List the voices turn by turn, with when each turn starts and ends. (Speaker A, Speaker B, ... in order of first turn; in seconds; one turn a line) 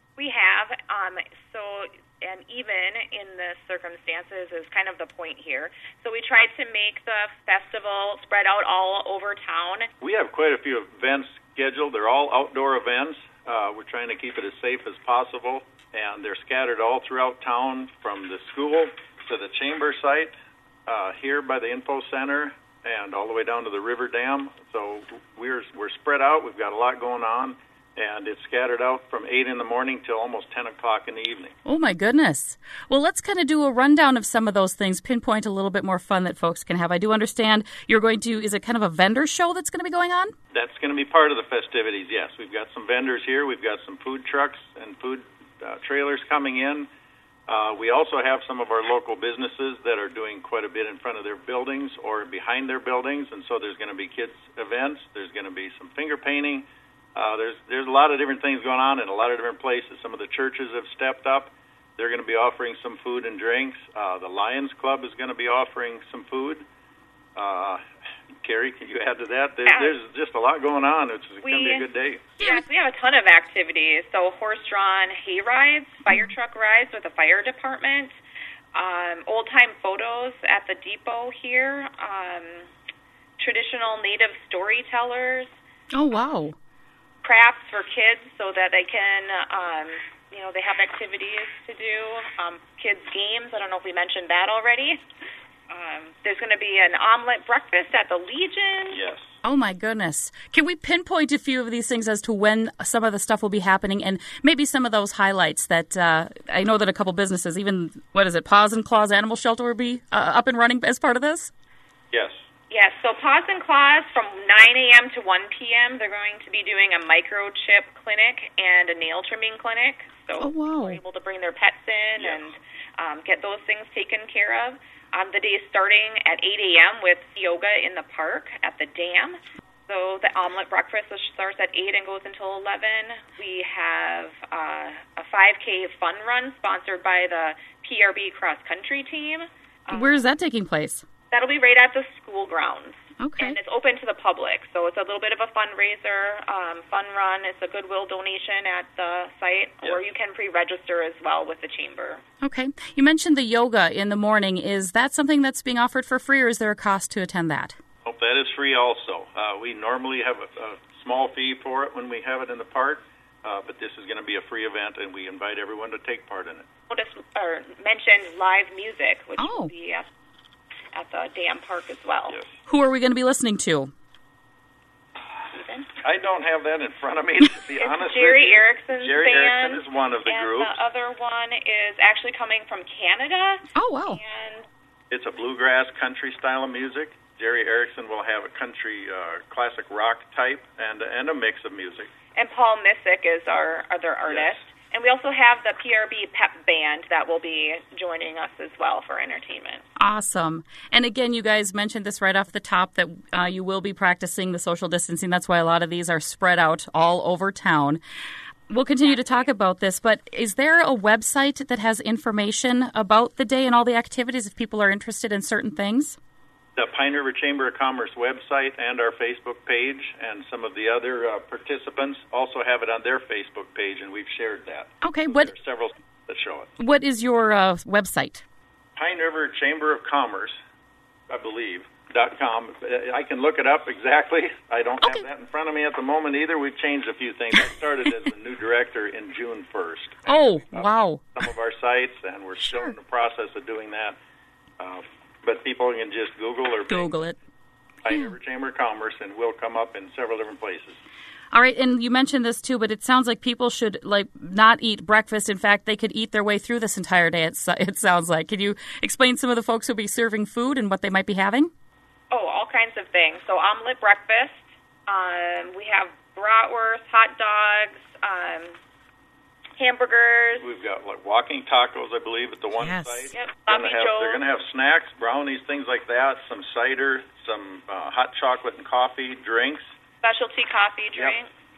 Speaker A: 0.2-9.9
Speaker B: 10.0-20.3
Speaker B: 20.9-31.6
Speaker C: 31.6-40.3
Speaker B: 40.5-46.9
Speaker B: 47.5-66.6
Speaker B: 67.3-67.8
Speaker B: 68.4-72.3
Speaker A: 69.7-70.0
Speaker A: 71.4-71.9
Speaker A: 72.4-78.1
Speaker A: 78.7-82.7
Speaker A: 83.4-85.5
Speaker C: 85.9-86.6
Speaker A: 87.2-95.0
Speaker A: 95.7-99.0
Speaker B: 98.9-99.3
Speaker C: 99.4-111.5
Speaker B: 112.1-112.4
Speaker A: 112.7-140.2
Speaker C: 120.4-121.0
Speaker C: 139.9-141.0
Speaker A: 141.3-152.2
Speaker C: 143.2-143.6
Speaker C: 152.4-157.8
Speaker B: 158.0-166.7
Speaker A: 166.9-170.1
Speaker C: 169.4-169.7
Speaker A: 170.9-172.4
Speaker C: 172.7-173.9
Speaker A: 175.5-175.9
Speaker B: 176.0-180.8
Speaker A: 177.8-184.7
Speaker C: 183.7-184.2
Speaker B: 185.1-192.1
Speaker A: 192.3-199.8
Speaker B: 194.3-194.6
Speaker C: 200.0-208.0
Speaker C: 208.7-216.2
Speaker A: 209.0-209.5
Speaker B: 216.8-226.7
Speaker C: 225.0-225.5
Speaker C: 226.8-228.4
Speaker B: 229.0-230.6
Speaker B: 231.3-244.2
Speaker C: 240.3-241.2
Speaker C: 242.6-242.9
Speaker B: 244.8-247.1
Speaker C: 246.9-247.3
Speaker B: 248.0-251.0
Speaker C: 248.1-248.3
Speaker C: 251.5-261.7
Speaker A: 262.3-268.8
Speaker A: 269.8-270.6
Speaker B: 270.6-279.8
Speaker A: 273.3-274.4
Speaker A: 280.2-281.5